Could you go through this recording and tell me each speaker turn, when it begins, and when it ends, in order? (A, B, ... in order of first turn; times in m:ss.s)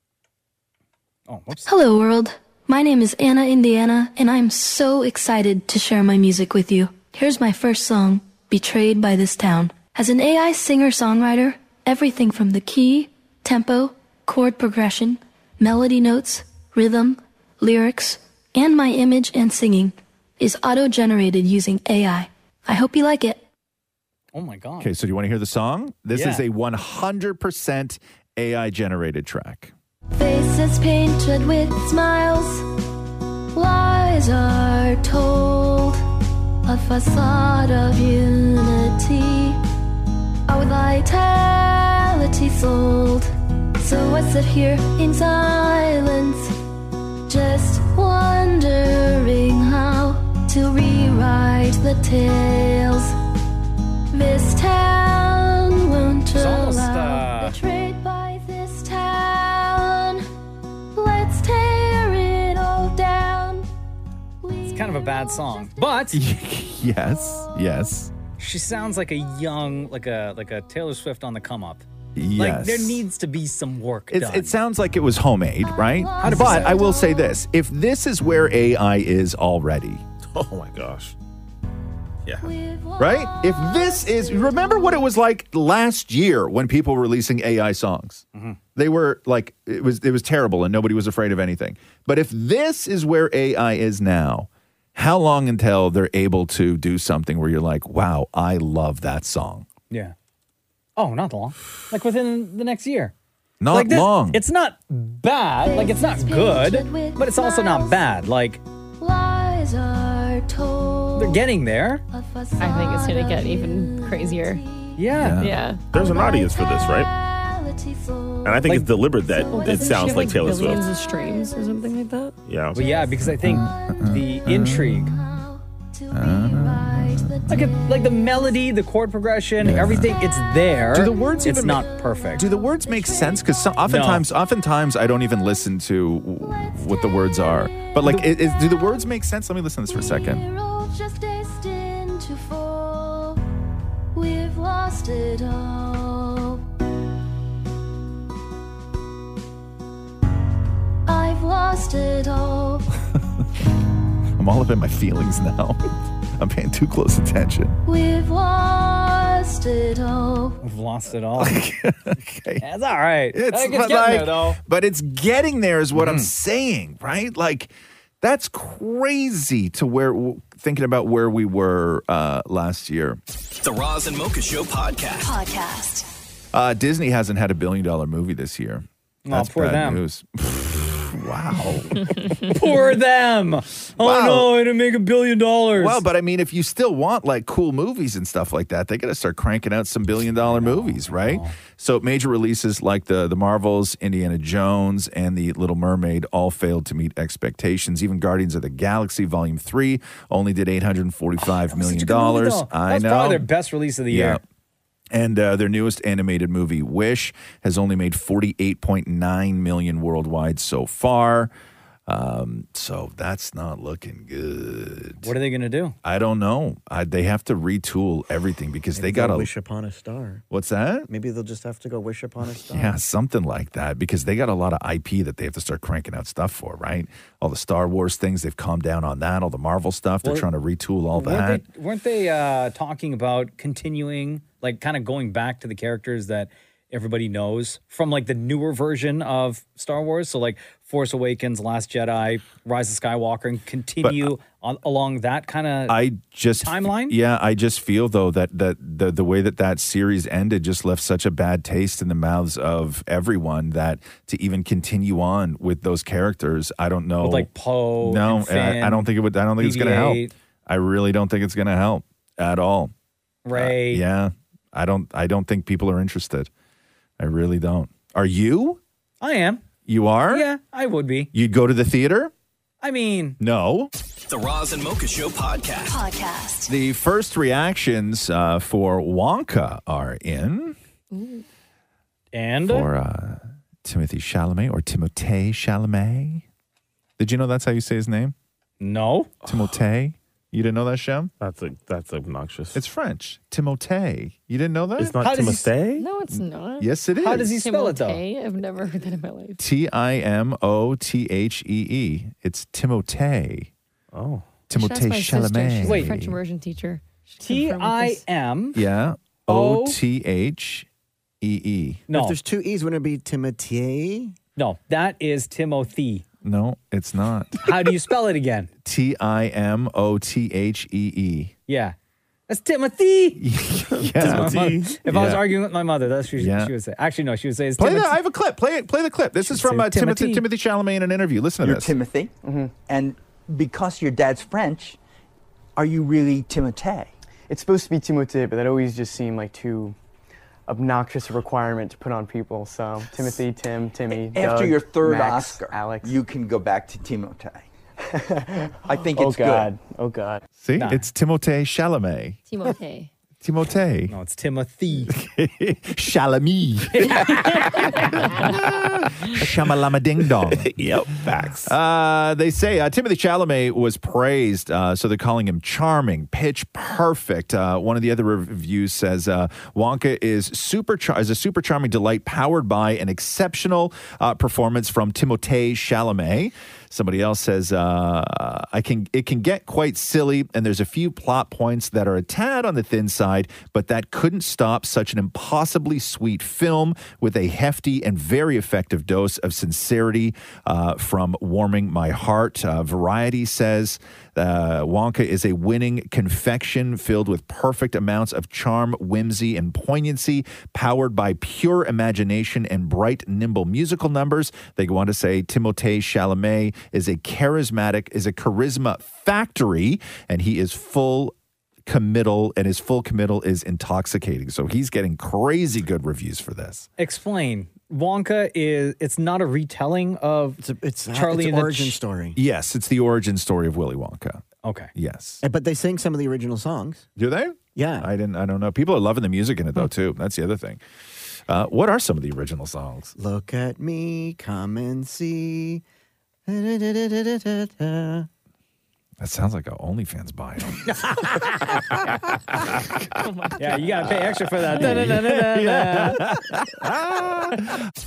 0:01.3-0:01.7 A
0:01.7-0:23.4 B
0:24.3-0:24.9 A
0:24.8-0:29.7 C
0:26.1-0:26.4 A
0:30.2-0:32.6 B
0:33.6-0:35.9 B
0:36.7-0:39.6 B
0:40.5-0:43.3 B
0:43.8-0:46.5 B
0:47.3-0:53.1 B
0:54.1-1:00.2 B
0:56.3-0:57.6 A
1:01.0-1:03.7 B
1:04.7-1:06.2 A
1:06.1-1:08.1 C
1:08.4-1:11.8 A
1:12.2-1:13.0 C
1:12.4-1:14.6 A
1:14.1-1:20.0 C
1:16.2-1:16.8 A
1:16.3-1:16.8 B
1:20.3-1:21.1 D
1:22.3-1:22.5 D
1:22.6-1:24.4 B
1:23.0-1:28.2 C
1:28.8-1:39.7 C
1:41.0-1:43.1 A
1:43.6-1:44.4 C
1:43.7-1:48.6 A
1:45.7-1:47.9 B
1:49.0-1:51.3 B
1:51.2-1:52.0 A
1:52.2-1:54.5 B
1:52.6-1:54.6 E
1:55.0-1:55.4 A
1:55.2-1:55.6 C
1:55.4-1:55.9 E
1:55.9-1:57.1 D
1:56.2-1:56.5 B
1:57.5-1:58.7 B
1:58.4-2:00.9 D
1:59.5-2:02.4 E
1:59.5-2:00.4 B
2:02.5-2:02.8 D
2:02.7-2:05.2 A
2:03.2-2:05.1 C
2:06.1-2:07.3 B
2:06.1-2:07.6 C
2:07.5-2:12.5 A
2:09.6-2:10.1 C
2:10.9-2:11.8 C
2:12.4-2:20.4 C
2:12.4-2:13.4 B
2:13.9-2:14.3 A
2:18.0-2:18.3 A
2:20.1-2:23.4 B
2:24.2-2:26.6 B
2:31.1-2:32.8 B
2:34.4-2:35.8 C
2:36.4-2:37.8 C
2:37.9-2:40.5 B
2:40.6-2:41.6 A
2:41.4-2:42.6 C
2:42.6-2:44.6 A
2:43.3-2:53.2 C
2:46.0-2:46.3 A
2:53.6-2:56.1 F
2:56.5-3:02.0 C
2:59.2-3:00.0 A
3:02.4-3:06.0 A
3:04.0-3:04.5 C
3:05.8-3:23.5 C
3:10.5-3:11.6 A
3:21.7-3:24.4 A
3:24.1-3:24.4 C
3:25.1-3:31.5 C
3:32.1-3:35.3 C
3:35.2-3:36.0 A
3:36.0-3:39.5 C
3:39.0-3:40.4 G
3:40.5-3:41.1 C
3:41.1-3:43.0 G
3:42.7-3:51.6 C
3:51.2-4:06.0 A
4:04.0-4:04.3 C
4:05.9-4:17.5 C
4:06.6-4:07.2 A
4:17.2-4:19.1 A
4:18.0-4:22.9 C
4:19.6-4:20.3 A
4:23.4-4:24.0 A
4:23.5-4:26.5 C
4:27.2-4:28.8 C
4:29.2-4:29.6 A
4:29.9-4:30.5 C
4:30.3-4:31.3 A
4:31.3-4:32.3 C
4:32.8-4:33.4 A
4:33.4-4:33.9 C
4:34.3-4:36.7 F
4:36.7-4:40.8 C
4:41.1-4:41.4 E
4:42.3-4:42.9 A
4:42.6-4:46.4 C
4:47.2-4:48.4 C
4:48.8-4:49.4 A
4:49.4-4:51.3 C
4:51.4-4:52.8 D
4:52.7-4:55.2 C
4:55.0-4:56.1 D
4:55.2-4:55.7 A
4:56.0-4:59.6 E
4:56.3-4:57.5 C
4:57.2-4:58.2 A
4:59.6-5:03.7 C
5:04.1-5:04.4 D
5:04.7-5:06.4 C
5:04.8-5:08.2 E
5:05.8-5:06.1 A
5:07.4-5:08.8 A
5:08.8-5:10.9 C
5:09.5-5:10.0 A
5:11.4-5:12.1 C
5:12.1-5:12.4 A
5:12.1-5:14.4 G
5:14.6-5:16.2 A
5:16.4-5:17.6 C
5:17.6-5:18.7 A
5:18.8-5:21.5 C
5:21.7-5:22.0 A
5:22.5-5:23.4 A
5:23.4-5:25.5 C
5:24.2-5:28.2 A
5:24.2-5:24.8 D
5:26.4-5:26.7 C
5:27.8-5:31.9 C
5:29.4-5:30.4 A
5:31.6-5:35.0 H
5:32.4-5:32.7 I
5:35.8-5:37.1 H
5:37.5-5:40.0 I
5:40.7-5:46.2 I
5:44.2-5:47.7 H
5:48.8-5:49.7 H
5:49.0-5:50.4 I
5:50.6-5:52.4 C
5:50.8-5:51.1 A
5:52.5-5:53.1 E
5:53.4-5:54.1 C
5:54.1-5:55.1 A
5:55.1-5:57.2 C
5:57.0-5:58.3 A
5:58.2-6:00.7 C
6:00.6-6:01.7 D
6:01.6-6:51.4 C
6:51.9-6:56.9 C
6:57.0-7:00.6 A
7:00.6-7:02.4 G
7:01.1-7:02.0 A
7:02.4-7:04.4 C
7:04.6-7:04.9 A
7:05.0-7:05.4 C
7:05.4-7:07.1 G
7:07.2-7:10.8 C
7:07.8-7:08.1 G
7:11.5-7:13.2 C
7:13.2-7:15.8 G
7:16.5-7:18.3 G
7:19.2-7:21.1 C
7:21.0-7:22.0 A
7:23.6-7:26.2 A
7:24.7-7:27.8 C